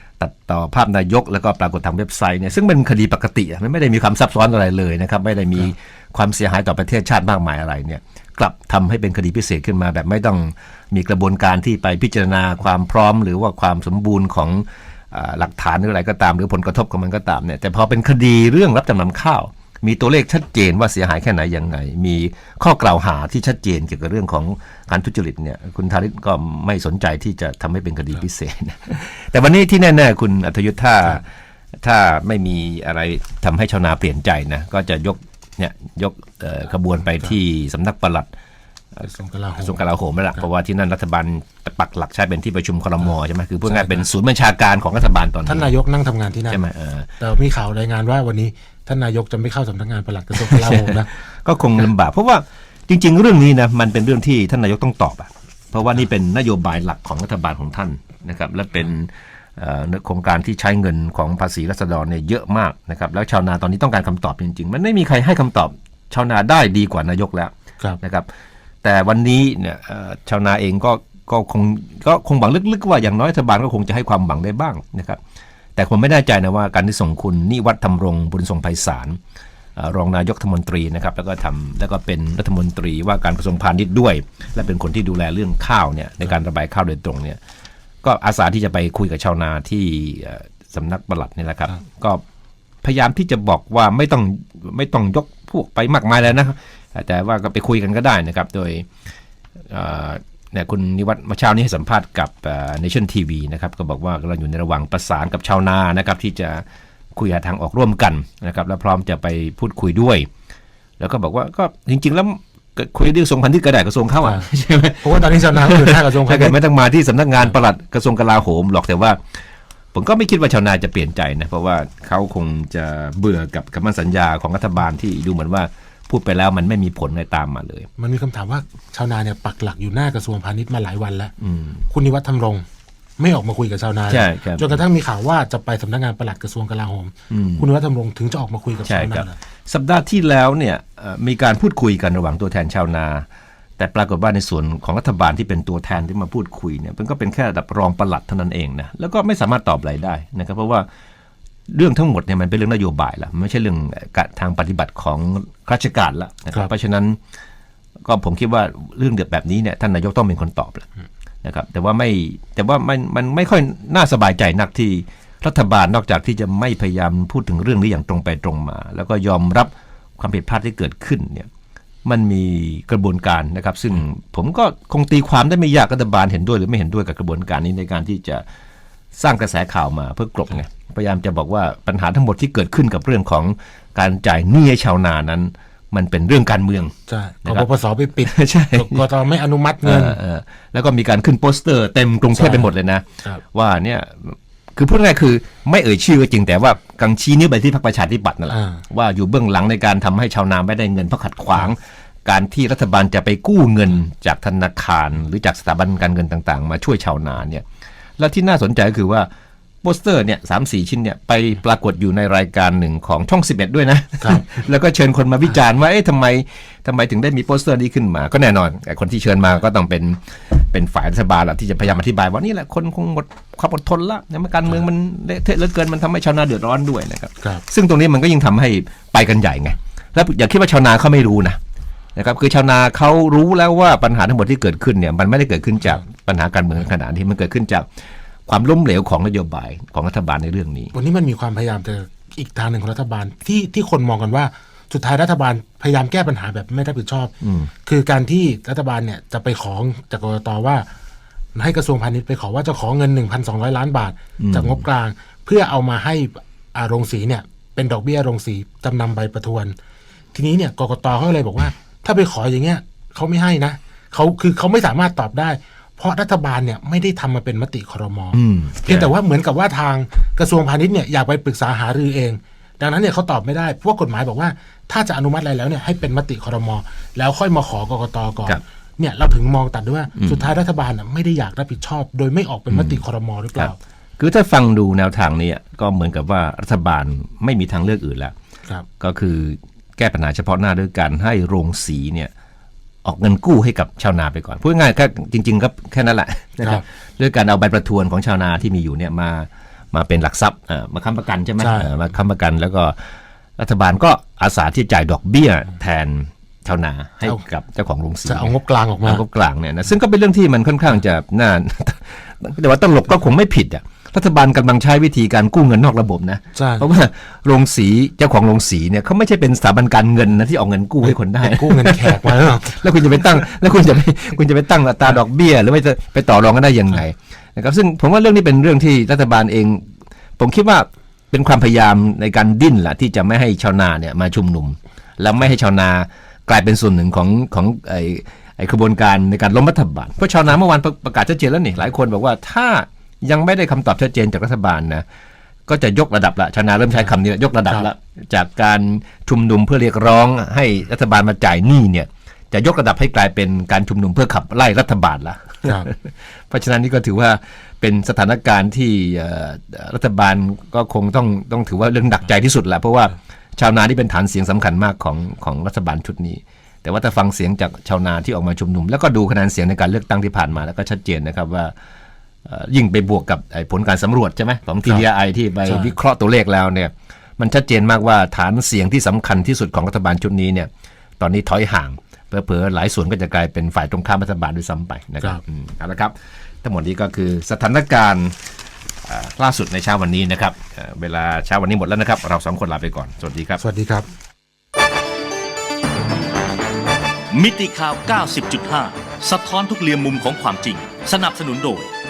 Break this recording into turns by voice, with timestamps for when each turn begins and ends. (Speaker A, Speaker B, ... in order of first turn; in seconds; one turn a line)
Speaker A: 0.2-31.2
Speaker A: 31.8-38.3
Speaker B: 39.1-39.8
Speaker A: 39.6-45.7
Speaker B: 43.7-44.0
Speaker B: 45.5-46.6
Speaker A: 46.5-47.1
Speaker B: 47.2-51.1
Speaker A: 50.4-68.3
Speaker A: 68.8-75.2
Speaker A: 75.8-79.2
Speaker A: 79.8-87.4
Speaker A: 88.0-92.2
Speaker A: 92.8-98.9
Speaker A: 99.7-110.3
Speaker A: 111.0-119.2
Speaker B: 115.0-116.6
Speaker A: 119.9-127.9
Speaker B: 128.0-131.3
Speaker A: 131.4-131.8
Speaker B: 131.9-132.7
Speaker B: 133.2-139.3
Speaker A: 134.1-134.8
Speaker A: 137.3-137.7
Speaker A: 138.9-143.3
Speaker A: 143.8-150.9
Speaker A: 151.7-157.2
Speaker A: 158.0-160.9
Speaker A: 161.4-171.5
Speaker A: 172.0-178.4
Speaker A: 179.1-187.7
Speaker B: 187.1-190.2
Speaker A: 188.2-189.1
Speaker A: 189.8-207.7
Speaker B: 192.3-192.7
Speaker B: 198.5-198.8
Speaker A: 208.2-209.3
Speaker A: 209.8-231.6
Speaker A: 232.2-237.9
Speaker A: 238.5-240.9
Speaker B: 240.9-247.3
Speaker A: 247.4-247.7
Speaker B: 247.8-250.9
Speaker B: 251.6-259.8
Speaker A: 254.4-254.8
Speaker B: 260.3-283.8
Speaker A: 268.3-269.1
Speaker A: 280.2-280.5
Speaker A: 282.7-283.0
Speaker A: 283.6-288.3
Speaker A: 289.0-292.3
Speaker A: 293.0-303.0
Speaker B: 301.6-301.9
Speaker A: 303.6-345.1
Speaker B: 308.3-309.2
Speaker B: 316.6-316.9
Speaker B: 321.0-322.8
Speaker A: 345.7-371.7
Speaker A: 372.5-388.4
Speaker B: 375.7-375.9
Speaker A: 389.0-393.6
Speaker B: 393.6-394.1
Speaker C: 397.3-401.9